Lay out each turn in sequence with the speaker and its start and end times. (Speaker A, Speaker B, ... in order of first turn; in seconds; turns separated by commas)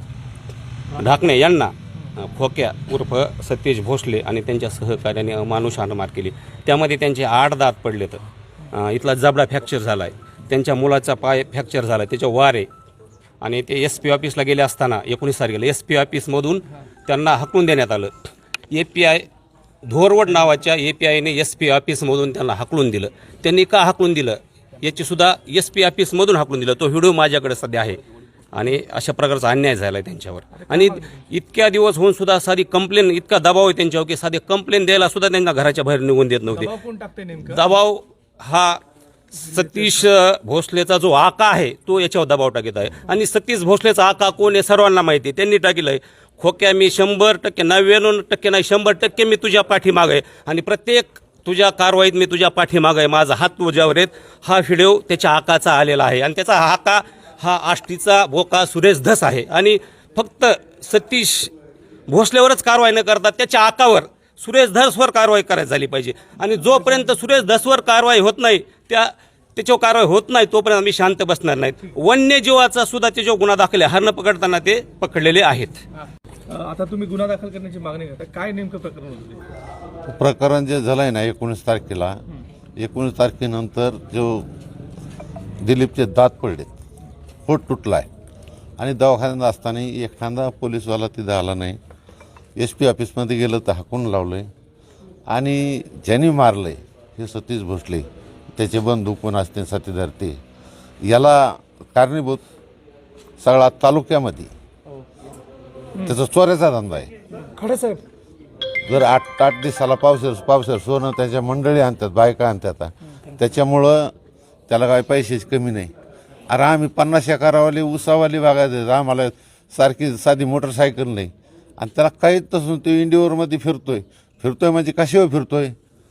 Speaker A: 0.9-12.7, Speaker A: 13.4-18.1, Speaker A: 18.7-19.3, Speaker A: 19.8-28.0, Speaker A: 28.5-36.7, Speaker B: 30.6-31.2, Speaker B: 36.5-37.6, Speaker A: 37.4-38.8, Speaker A: 39.3-61.5, Speaker A: 62.1-75.8, Speaker B: 76.5-79.5, Speaker C: 80.1-82.2, Speaker C: 82.8-84.5, Speaker C: 85.6-86.7, Speaker C: 87.5-88.1, Speaker C: 88.8-91.8, Speaker C: 92.6-94.5, Speaker C: 95.3-100.4, Speaker C: 101.0-102.4, Speaker C: 103.4-104.5, Speaker C: 106.0-107.1, Speaker B: 107.4-108.0, Speaker C: 108.9-114.1, Speaker C: 114.7-115.9, Speaker C: 116.5-125.7